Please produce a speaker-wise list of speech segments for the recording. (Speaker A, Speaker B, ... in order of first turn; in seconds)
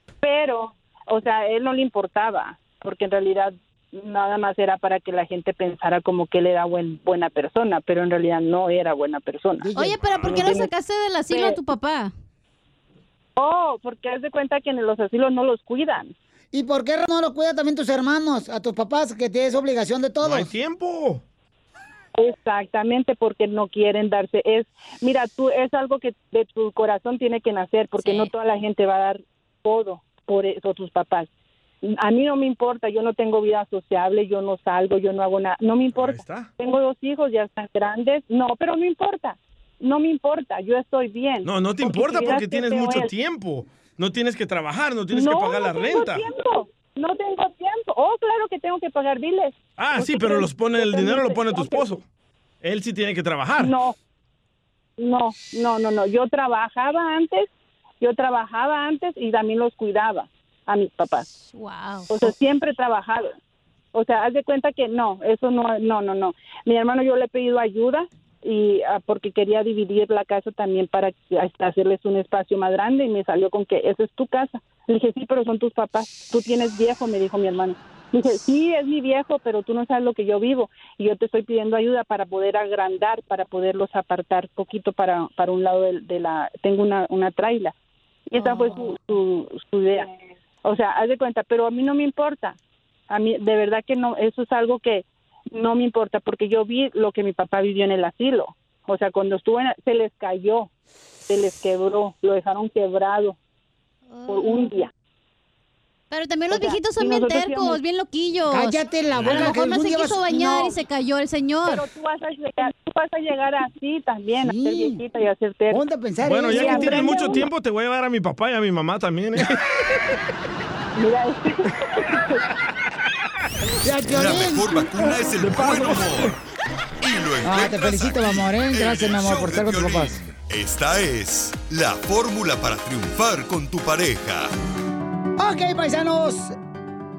Speaker A: 0.2-9.7, 10.3-10.7, 11.3-11.6, 13.4-16.1, 22.2-31.3, 31.8-43.1, 45.1-51.9, 53.6-54.0, 55.0-57.5, 58.0-61.3, 62.1-63.3, 63.9-87.7, 88.3-92.6, 93.1-100.7, 101.3-103.4, 104.3-104.9, 106.5-107.8, 111.7-115.8, 116.5-117.5, 121.0-122.4
Speaker B: 9.6-10.0, 16.5-20.5, 108.5-110.4, 114.4-115.0, 115.7-117.0, 123.8-125.1, 127.4-130.2, 135.4-136.5
Speaker C: 9.8-12.1, 28.0-28.3, 61.4-62.1, 88.4-88.8, 104.1-104.7, 106.1-111.8
Speaker D: 20.2-21.2, 35.9-36.5, 41.4-46.3, 49.8-52.0, 52.6-53.8, 109.1-109.5, 116.2-119.7
Speaker E: 124.1-126.3, 127.0-134.5